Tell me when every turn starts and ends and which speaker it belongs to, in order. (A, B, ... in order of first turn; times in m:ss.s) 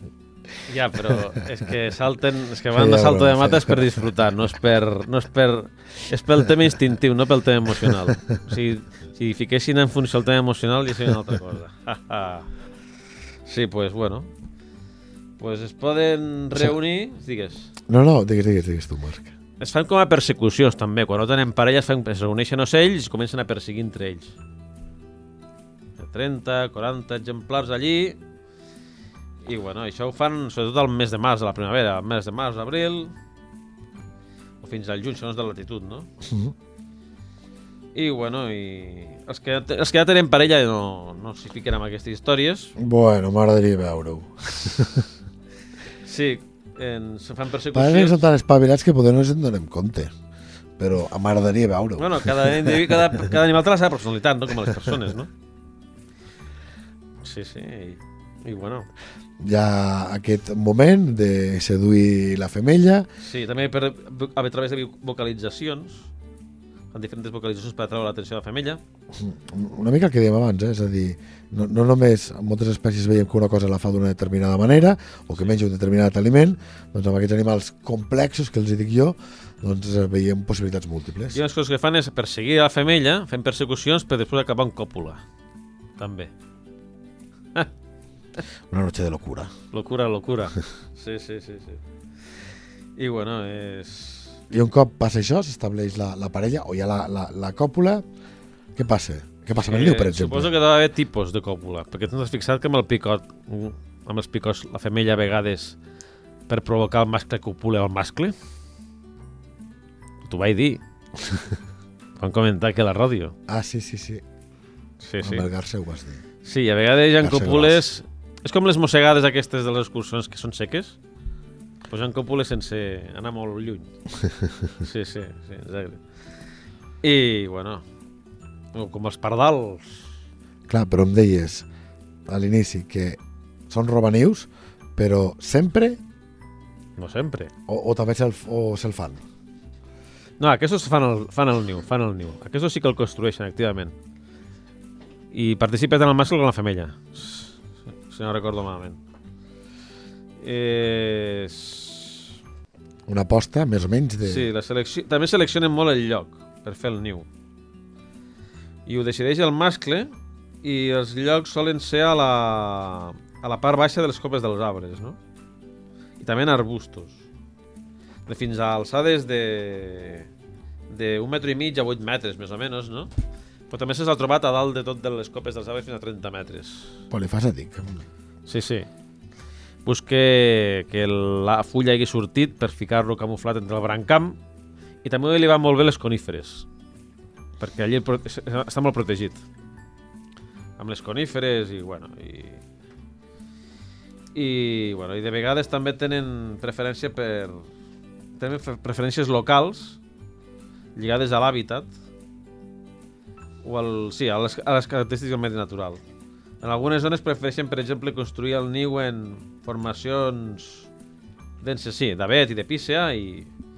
0:00.7-0:12.5 A
0:01.0-0:01.2 B
0:02.7-0:04.0 B
0:13.5-0:14.3 A
0:15.4-0:17.7 A
0:17.9-0:19.3 B
0:19.6-0:24.4 A
0:26.0-0:28.2 A
0:29.5-0:33.1 A
0:34.6-0:36.1 A
0:36.2-0:36.5 B
0:38.0-0:42.8 A
0:42.8-0:45.1 B
0:46.0-0:48.2 A
0:47.7-0:50.1 B
0:50.8-0:53.4 B
0:52.0-0:55.3 A
0:57.2-0:58.9 A
0:59.4-1:03.1 B
1:03.2-1:06.1 A
1:06.9-1:08.8 A
1:09.1-1:21.4 B
1:21.3-1:25.2 A
1:26.0-1:26.3 A
1:28.7-1:29.5 B
1:29.7-1:31.8 A
1:33.0-1:34.4 A
1:34.5-1:38.0 B
1:38.8-1:40.5 B
1:39.6-1:45.8 A
1:46.5-1:48.4 A
1:50.3-1:50.8 A
1:52.2-1:53.4 A
1:53.5-1:54.2 B
1:55.0-1:55.5 A
1:55.2-1:56.2 B
1:56.4-2:01.0 A
1:57.2-1:57.8 B
2:01.9-2:03.9 A
2:04.8-2:06.0 A
2:07.0-2:07.8 A
2:08.7-2:10.1 A
2:10.7-2:11.7 B
2:12.3-2:16.0 B
2:17.0-2:17.5 A
2:17.7-2:19.2 B
2:20.4-2:24.0 A
2:25.3-2:29.0 A
2:30.4-2:32.2 A
2:33.1-2:34.5 B
2:34.2-2:37.3 A
2:38.9-2:40.1 A
2:40.6-2:45.2 A
2:46.2-2:47.2 A
2:48.3-2:50.3 A
2:50.9-2:53.1 A
2:53.7-2:56.9 A
2:57.1-2:58.0 B
2:58.5-2:58.9 A
2:59.8-3:04.4 A
3:05.0-3:06.7 A
3:07.6-3:09.4 A
3:10.8-3:12.6 A
3:14.3-3:17.6 A
3:18.4-3:20.0 A
3:21.0-3:21.9 A
3:23.6-3:26.0 A
3:26.6-3:30.9 A
3:31.6-3:33.5 A